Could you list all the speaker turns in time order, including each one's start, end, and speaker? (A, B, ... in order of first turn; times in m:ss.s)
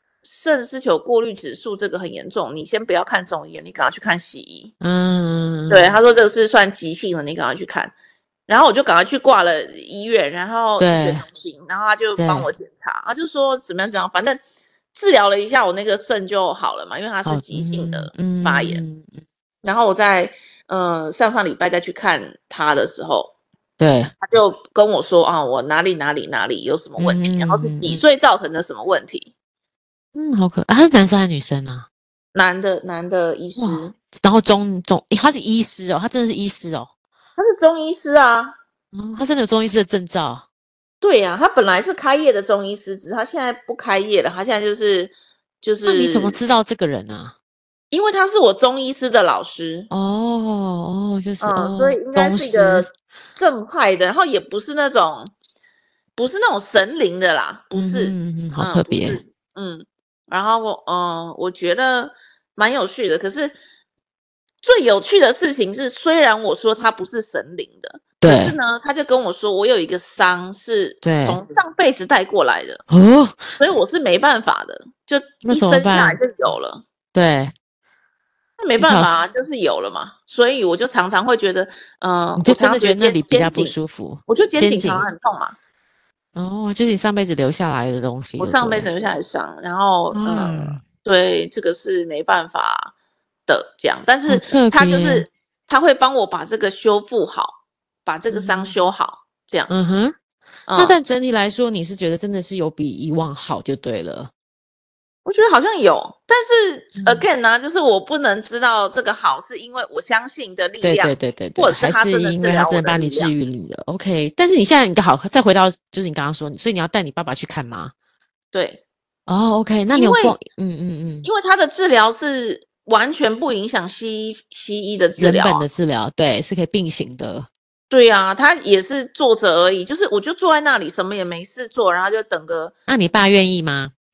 0:00.2-0:04.7 A
0:04.8-0:05.9 B
0:05.7-0:07.9 A
0:08.5-0:14.4 A
0:10.8-0:11.2 B
0:12.2-0:12.5 B
0:14.9-0:18.8 A
0:17.2-0:19.2 B
0:19.6-0:23.3 A
0:23.8-0:24.1 B
0:24.2-0:29.3 A
0:27.0-0:28.0 B
0:30.1-0:31.9 B
0:32.3-0:33.9 A
0:33.6-0:36.9 B
0:37.4-0:38.5 A
0:38.9-0:40.4 B
0:41.0-0:46.4 A
0:45.8-0:47.3 B
0:47.9-0:49.9 A
0:49.9-0:52.9 B
0:51.4-0:55.3 A
0:56.2-1:03.6 A
0:57.7-0:59.2 B
1:04.6-1:12.8 A
1:08.2-1:08.5 B
1:11.0-1:11.4 B
1:12.9-1:13.5 B
1:13.6-1:16.8 A
1:15.4-1:16.2 B
1:17.1-1:17.5 B
1:18.6-1:23.8 A
1:18.8-1:19.1 B
1:22.4-1:25.1 B
1:24.3-1:25.6 A
1:26.3-1:28.9 B
1:28.4-1:32.9 A
1:30.1-1:30.8 B
1:33.5-1:39.7 A
1:34.3-1:35.2 B
1:38.3-1:38.7 B
1:39.7-1:40.2 B
1:40.7-1:41.0 A
1:40.7-1:44.3 B
1:45.2-1:53.3 A
1:47.0-1:47.2 B
1:50.8-1:57.9 B
1:58.5-1:58.8 A
1:59.3-2:01.3 B
1:59.9-2:00.4 A
2:01.2-2:05.6 A
2:05.2-2:07.5 B
2:07.9-2:12.7 A
2:12.9-2:13.9 B